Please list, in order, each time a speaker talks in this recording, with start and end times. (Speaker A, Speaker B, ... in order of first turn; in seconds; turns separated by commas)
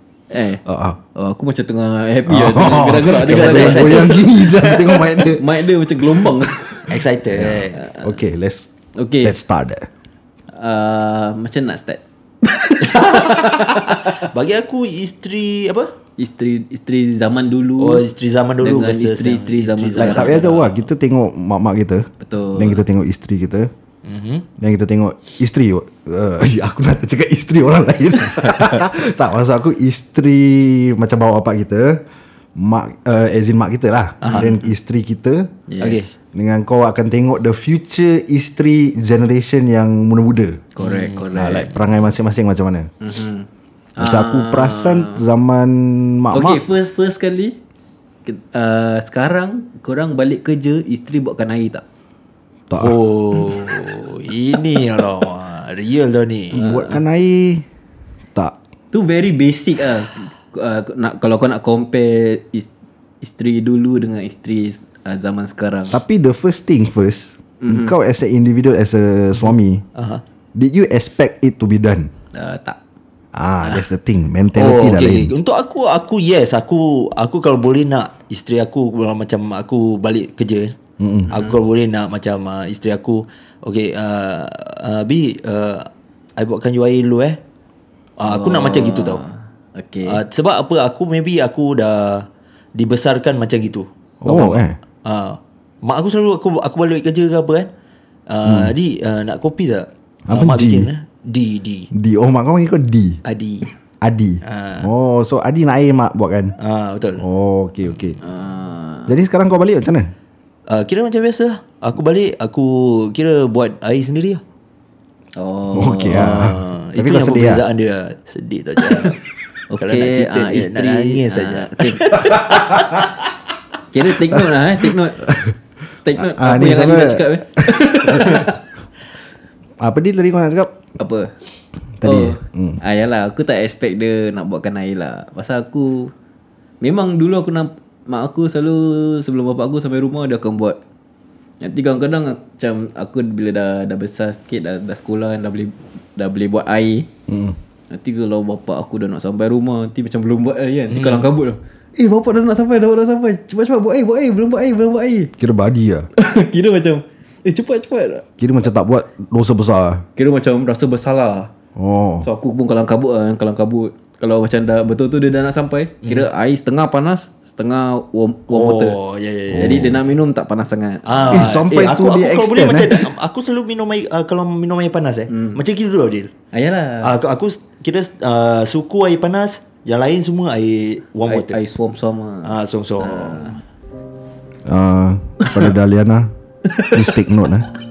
Speaker A: 0.3-0.6, Speaker B: 0.7-1.0, Speaker A: 1.1-4.3, Speaker B: 2.3-5.5, Speaker C: 3.1-5.0, Speaker A: 5.3-6.9, Speaker C: 6.9-7.9, Speaker B: 7.3-8.7, Speaker A: 7.8-8.2, Speaker A: 9.0-9.3, Speaker B: 9.2-9.9, Speaker A: 10.5-14.3, Speaker C: 12.8-15.9, Speaker A: 16.2-18.0, Speaker C: 17.8-20.8, Speaker A: 18.6-20.6, Speaker B: 20.0-23.7, Speaker A: 22.2-22.8, Speaker C: 24.1-24.5, Speaker B: 24.6-32.0, Speaker B: 32.6-35.5, Speaker C: 34.2-34.5, Speaker A: 34.3-34.6, Speaker A: 35.7-36.2, Speaker C: 35.8-36.1, Speaker B: 36.3-40.7, Speaker A: 40.8-41.8, Speaker C: 40.8-41.3, Speaker B: 41.4-42.9, Speaker A: 43.0-43.5, Speaker A: 44.0-45.2, Speaker B: 44.0-46.6, Speaker A: 46.3-47.6, Speaker A: 48.2-51.8, Speaker B: 52.7-53.0, Speaker C: 52.8-56.6, Speaker B: 56.5-57.6, Speaker A: 56.5-57.0, Speaker A: 58.9-62.7, Speaker A: 63.2-66.0, Speaker B: 65.9-69.8, Speaker A: 67.6-68.0, Speaker C: 70.0-70.2, Speaker B: 70.5-72.1, Speaker A: 72.3-72.8, Speaker B: 73.3-75.3, Speaker C: 74.5-80.8, Speaker B: 81.0-81.3, Speaker A: 81.3-81.5, Speaker C: 81.3-87.4, Speaker C: 88.2-89.2, Speaker A: 88.2-90.2, Speaker C: 90.1-97.7, Speaker B: 94.2-94.8, Speaker C: 98.3-101.9, Speaker B: 98.4-98.7, Speaker B: 100.3-100.9, Speaker B: 101.9-103.2, Speaker C: 103.2-103.7, Speaker B: 104.0-106.5, Speaker C: 104.4-104.9, Speaker C: 106.6-107.3, Speaker B: 107.2-108.2, Speaker A: 108.2-109.1, Speaker B: 109.1-110.1, Speaker C: 110.7-114.4, Speaker A: 115.4-116.3, Speaker B: 115.7-117.6, Speaker C: 116.1-119.2, Speaker A: 118.8-119.1, Speaker A: 119.7-122.5, Speaker C: 119.8-123.1, Speaker A: 123.9-125.3, Speaker B: 124.3-125.6, Speaker A: 126.0-128.6, Speaker B: 126.1-128.5, Speaker B: 129.8-130.8, Speaker A: 131.0-131.3, Speaker B: 132.0-132.8, Speaker A: 132.0-136.1, Speaker A: 136.8-140.8, Speaker A: 141.6-147.1, Speaker B: 147.3-147.6, Speaker A: 147.9-155.3, Speaker C: 150.9-151.3, Speaker B: 155.4-156.1, Speaker A: 156.2-158.3, Speaker B: 158.4-160.0, Speaker A: 160.2-161.5, Speaker B: 161.8-162.3, Speaker A: 162.2-169.0, Speaker C: 166.0-166.3, Speaker C: 168.5-169.9, Speaker B: 169.5-170.0, Speaker A: 169.5-171.5, Speaker C: 171.1-176.3, Speaker B: 171.3-173.0, Speaker A: 175.3-175.6, Speaker A: 176.5-177.1, Speaker C: 177.0-181.6, Speaker A: 181.2-183.6, Speaker C: 182.4-183.5, Speaker B: 184.7-186.3, Speaker A: 185.4-185.7, Speaker A: 186.7-187.0, Speaker B: 186.9-187.7